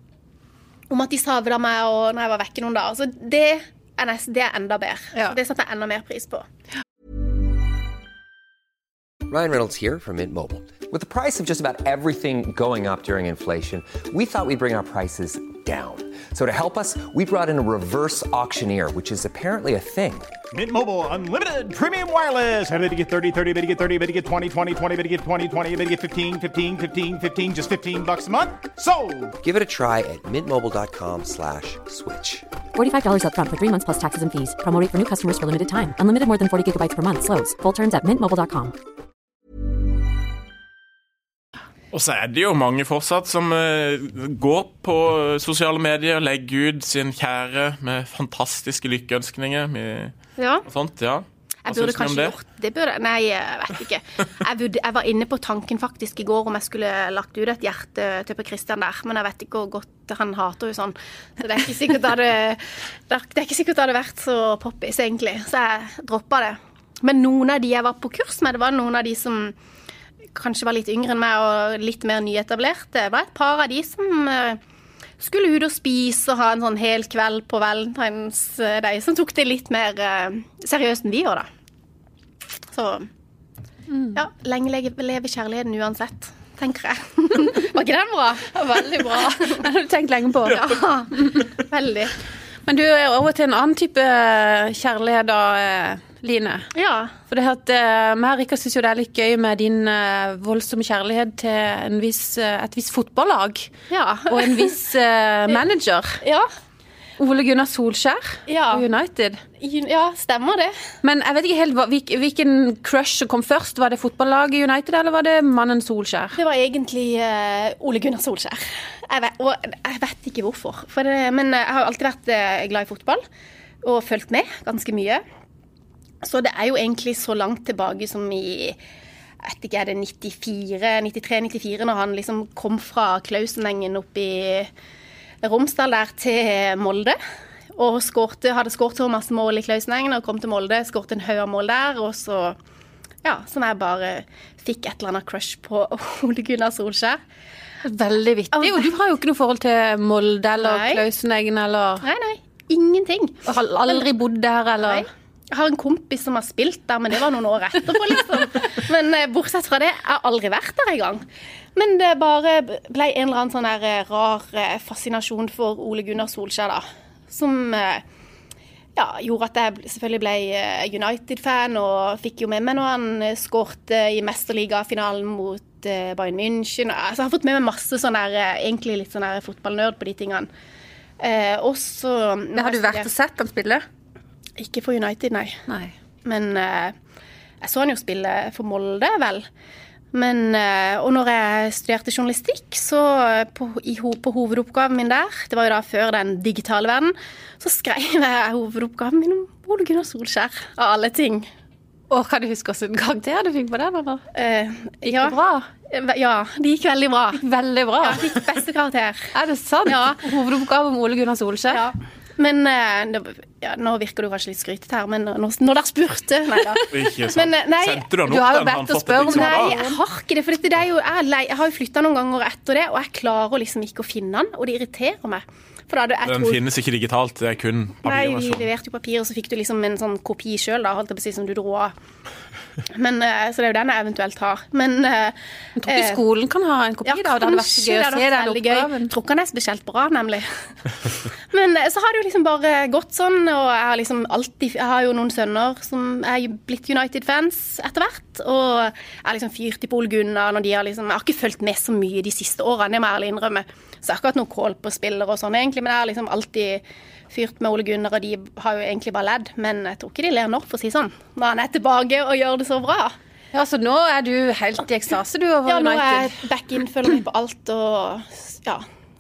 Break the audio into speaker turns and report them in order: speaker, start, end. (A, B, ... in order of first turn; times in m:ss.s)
0:00.9-0:06.5 A
0:09.3-0:20.3 B
0:20.5-0:29.4 C
0:29.4-0:32.4 B
0:32.8-0:38.8 D
0:41.9-0:50.1 E
0:50.4-0:50.7 A
0:50.7-0:52.4 E
0:51.7-1:09.6 A
1:10.4-1:14.6 A
1:15.2-1:21.5 A
1:22.7-1:23.1 A
1:23.9-1:24.2 F
1:24.2-1:29.6 A
1:28.6-1:31.4 F
1:30.5-1:32.1 A
1:32.7-1:36.7 F
1:36.8-1:37.1 A
1:37.3-1:43.7 F
1:43.9-1:44.7 A
1:44.3-1:46.2 F
1:46.2-1:46.5 A
1:47.2-1:49.4 F
1:48.5-1:48.8 A
1:49.6-1:50.7 A
1:51.0-1:56.4 F
1:56.4-2:03.2 A
2:03.8-2:05.2 A
2:06.2-2:08.8 A
2:09.4-2:14.7 A
2:15.4-2:17.2 A
2:17.8-2:22.6 A
2:23.2-2:27.2 A
2:27.8-2:32.0 F
2:28.5-2:28.8 A
2:30.6-2:31.0 A
2:32.0-2:34.0 A
2:33.5-2:35.1 F
2:34.8-2:41.2 A
2:41.8-2:48.0 A
2:49.0-3:00.5 A
3:01.2-3:03.1 A
3:02.6-3:03.8 F
3:04.6-3:05.6 A
3:05.7-3:05.9 F
3:06.2-3:07.0 A
3:07.6-3:09.5 A
3:10.1-3:21.5 A
3:22.1-3:24.2 F
3:24.4-3:27.4 A
3:25.0-3:25.7 F
3:27.3-3:28.2 F
3:28.0-3:29.3 A
3:29.3-3:31.8 F
3:29.9-3:30.2 A
3:31.7-3:38.0 A
3:36.9-3:39.8 E
3:38.2-3:40.0 F
3:39.3-3:46.6 A
3:46.2-3:48.7 E
3:48.0-3:51.9 A
3:52.9-3:55.4 A
3:55.8-3:59.1 F
3:55.9-3:56.2 A
3:57.1-4:00.5 A
4:01.5-4:23.2 A
4:23.5-4:26.4 F
4:25.7-4:28.8 A